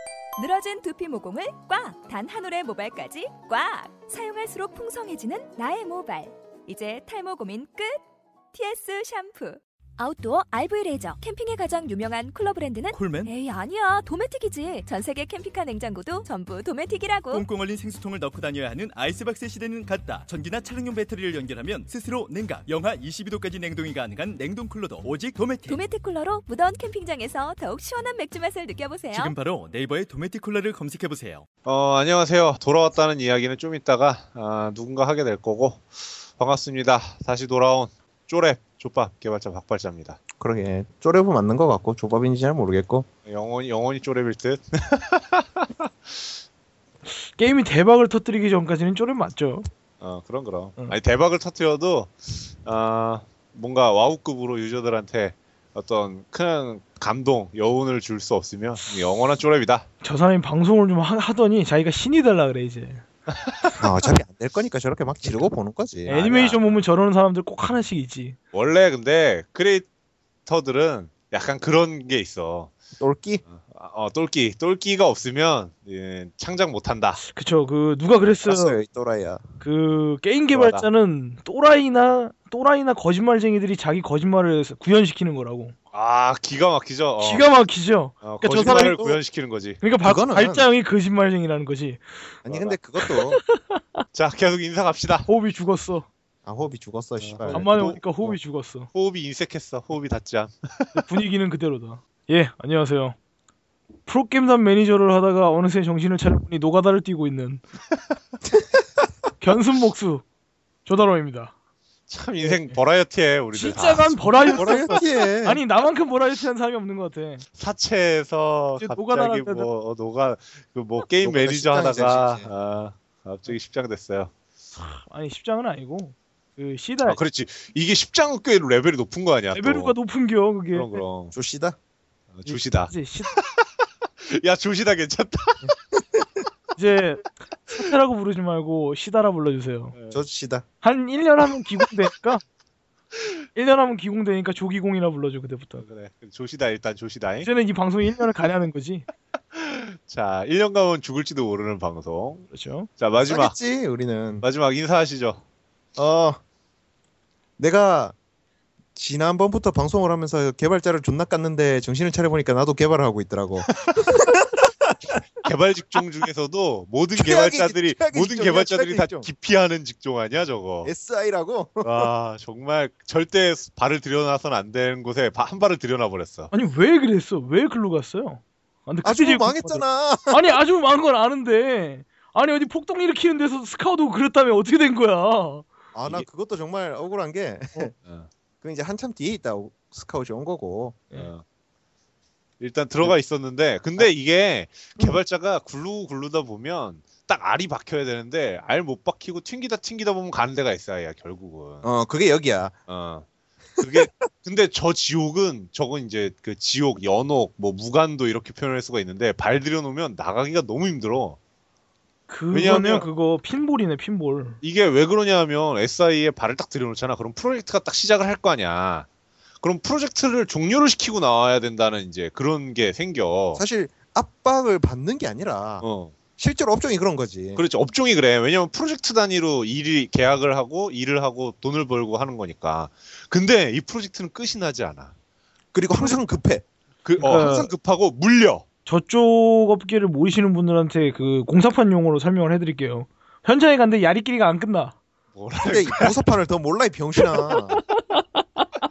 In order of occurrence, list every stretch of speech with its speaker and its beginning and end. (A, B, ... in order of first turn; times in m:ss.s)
0:00.4-0:08.0 A
0:08.5-0:17.5 A
0:12.9-0:13.3 B
0:17.3-0:25.8 B
0:25.7-0:29.3 A
0:29.1-0:31.4 B
0:31.6-0:40.2 C
0:40.4-0:43.1 D
0:43.2-0:45.9 C
0:47.3-0:49.7 E
0:50.0-0:59.9 C
1:00.0-1:03.0 E
1:03.3-1:03.7 C
1:03.8-1:06.2 D
1:06.1-1:08.4 E
1:06.1-1:06.6 C
1:08.5-1:09.9 C
1:10.5-1:12.7 C
1:13.0-1:13.4 D
1:13.5-1:17.2 C
1:17.2-1:18.8 E
1:18.4-1:19.4 D
1:19.6-1:25.8 E
1:20.5-1:20.9 C
1:25.9-1:27.5 C
1:27.2-1:29.0 E
1:28.2-1:29.8 C
1:28.6-1:29.2 D
1:29.8-1:32.0 E
1:30.0-1:30.7 D
1:32.4-1:33.4 D
1:32.5-1:32.8 C
1:33.0-1:34.0 E
1:34.1-1:35.3 C
1:35.3-1:36.1 E
1:36.5-1:37.7 D
1:37.2-1:38.0 C
1:37.5-1:38.9 E
1:38.9-1:41.0 C
1:40.9-1:43.2 E
1:44.1-1:47.6 E
1:49.4-1:50.2 E
1:50.8-1:51.5 E
1:52.1-1:55.0 C
1:52.4-1:52.8 E
1:53.5-1:57.4 E
1:54.5-1:55.6 D
1:57.6-2:04.3 C
1:58.8-1:59.7 E
2:01.2-2:02.5 D
2:04.8-2:07.2 E
2:07.0-2:10.0 C
2:09.5-2:11.0 E
2:10.7-2:11.3 C
2:11.3-2:11.8 D
2:12.3-2:13.6 C
2:12.5-2:13.3 E
2:14.2-2:15.7 C
2:15.7-2:16.3 D
2:16.8-2:19.9 E
2:19.9-2:20.2 C
2:20.1-2:20.6 D
2:20.8-2:22.4 E
2:23.6-2:25.8 E
2:25.8-2:27.5 C
2:27.4-2:29.1 E
2:29.6-2:32.5 C
2:32.5-2:32.9 E
2:33.0-2:33.6 C
2:33.3-2:34.4 D
2:34.4-2:35.4 C
2:36.0-2:36.4 D
2:37.6-2:38.2 D
2:39.0-2:45.2 D
2:43.7-2:44.1 C
2:45.4-2:50.9 C
2:47.2-2:49.3 D
2:50.8-2:52.1 D
2:51.8-2:56.5 C
2:56.5-3:05.7 E
2:59.0-3:00.6 D
3:06.0-3:07.9 D
3:08.6-3:11.0 D
3:11.2-3:11.4 C
3:12.6-3:21.9 C
3:21.8-3:22.8 D
3:22.9-3:23.2 C
3:23.8-3:31.4 C
3:23.8-3:24.2 D
3:32.3-3:34.6 E
3:32.5-3:33.1 C
3:34.6-3:39.1 C
3:39.6-3:43.6 C
3:43.6-3:45.8 D
3:45.8-3:46.2 C
3:46.4-3:47.6 D
3:47.6-3:55.1 C
3:55.7-3:56.7 D
3:57.0-3:58.6 C
3:57.2-3:57.6 E
3:57.2-3:57.7 D
3:58.9-4:05.0 E
4:05.4-4:06.1 C
4:05.7-4:07.8 D
4:07.9-4:08.7 E